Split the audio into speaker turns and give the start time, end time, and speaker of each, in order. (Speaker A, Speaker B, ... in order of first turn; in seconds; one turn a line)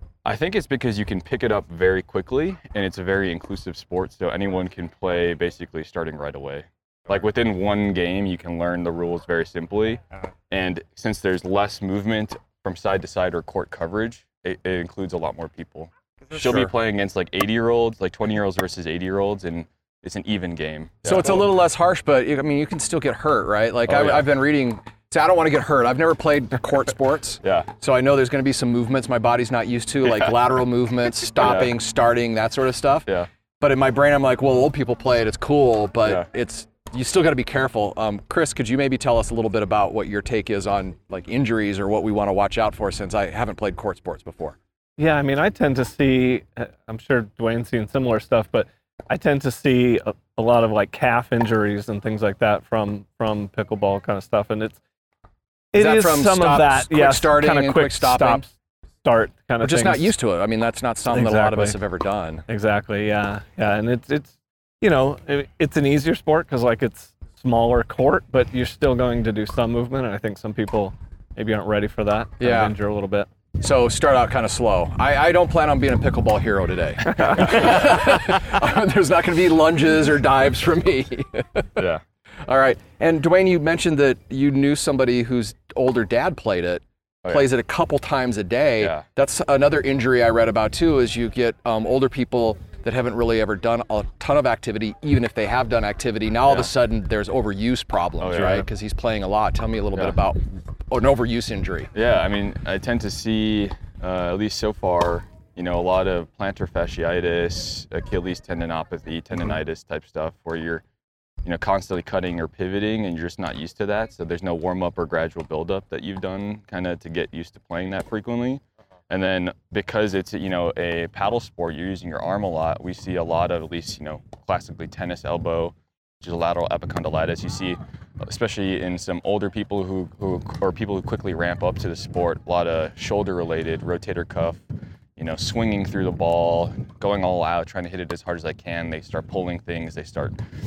Speaker A: 0.2-21.5
Speaker B: 16.4-16.7
Speaker B: 21.0-44.6
Speaker A: 23.9-24.3
Speaker A: 27.4-27.7
Speaker A: 30.1-30.3
Speaker A: 31.4-31.8
Speaker C: 45.0-54.8
Speaker C: 55.7-58.5
Speaker B: 55.8-58.5
Speaker C: 59.0-60.1
Speaker B: 59.6-62.4
Speaker C: 61.1-61.8
Speaker C: 62.5-73.3
Speaker B: 72.4-72.7
Speaker B: 73.6-81.8
Speaker A: 81.8-82.0
Speaker B: 82.5-101.9
Speaker A: 98.2-98.7
Speaker A: 101.9-110.8
Speaker A: 111.4-134.6
Speaker A: 135.2-140.4